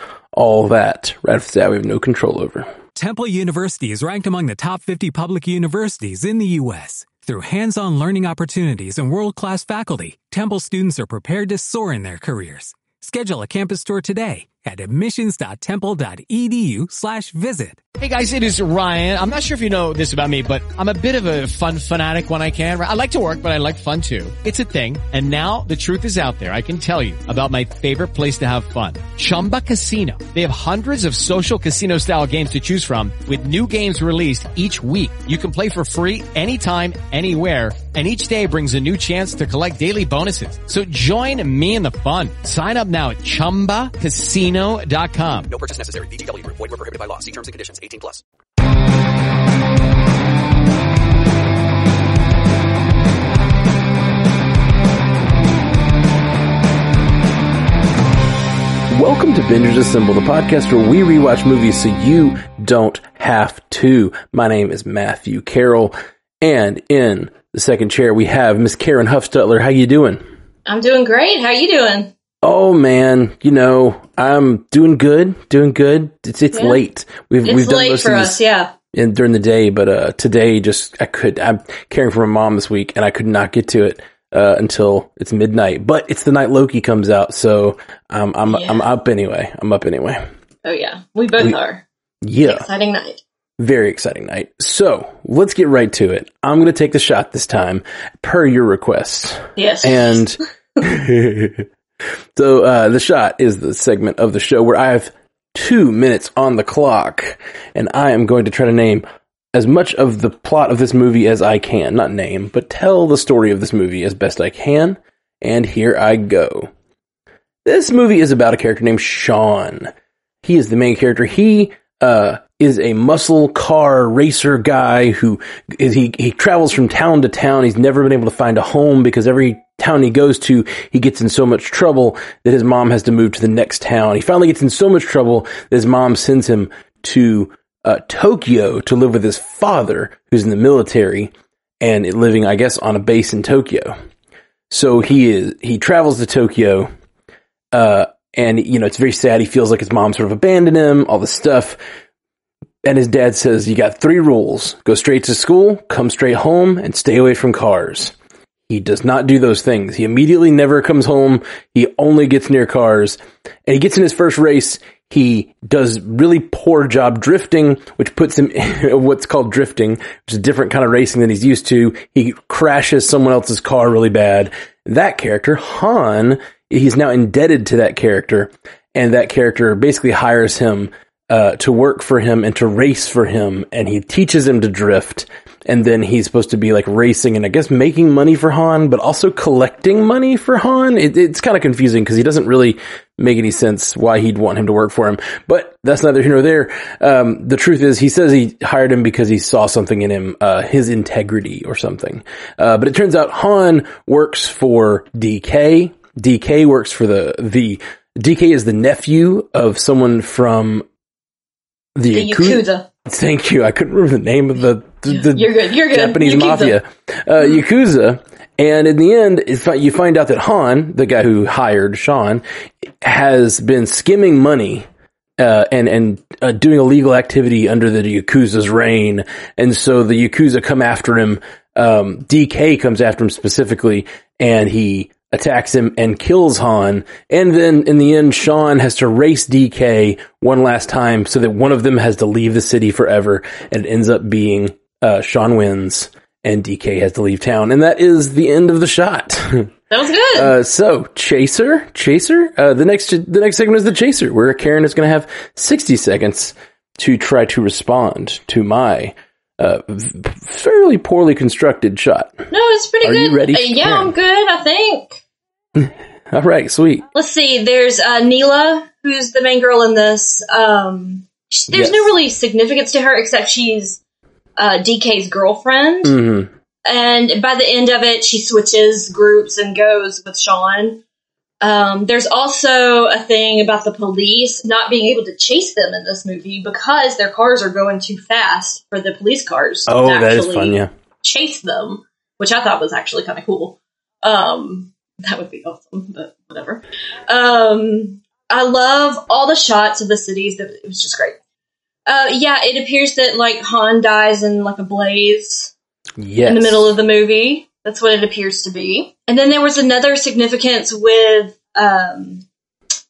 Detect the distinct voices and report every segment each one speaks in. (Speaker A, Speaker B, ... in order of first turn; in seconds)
Speaker A: 0.3-2.7, 58.9-70.2, 72.4-78.4, 78.9-90.2, 92.2-92.7, 93.6-101.7, 102.3-116.7, 117.6-119.9, 120.4-143.9, 144.7-146.9, 147.7-151.8, 152.8-158.1, 158.7-210.8, 211.9-222.4, 223.0-224.8, 225.4-249.7, 250.3-262.4, 263.0-264.1, 265.8-267.0, 271.7-272.1, 276.0-276.5, 289.9-290.9, 306.2-306.9
Speaker B: 2.9-17.8
Speaker C: 18.0-45.5
Speaker D: 45.5-48.2
Speaker E: 70.7-72.1, 76.5-76.8, 77.4-78.7, 88.5-88.8, 90.6-91.8, 92.4-93.2, 99.6-100.2, 212.1-212.9, 215.1-216.8, 249.9-250.5, 262.5-265.2, 267.1-274.0, 274.6-276.1, 276.9-281.0, 281.6-301.4, 302.1-305.7, 306.4-312.4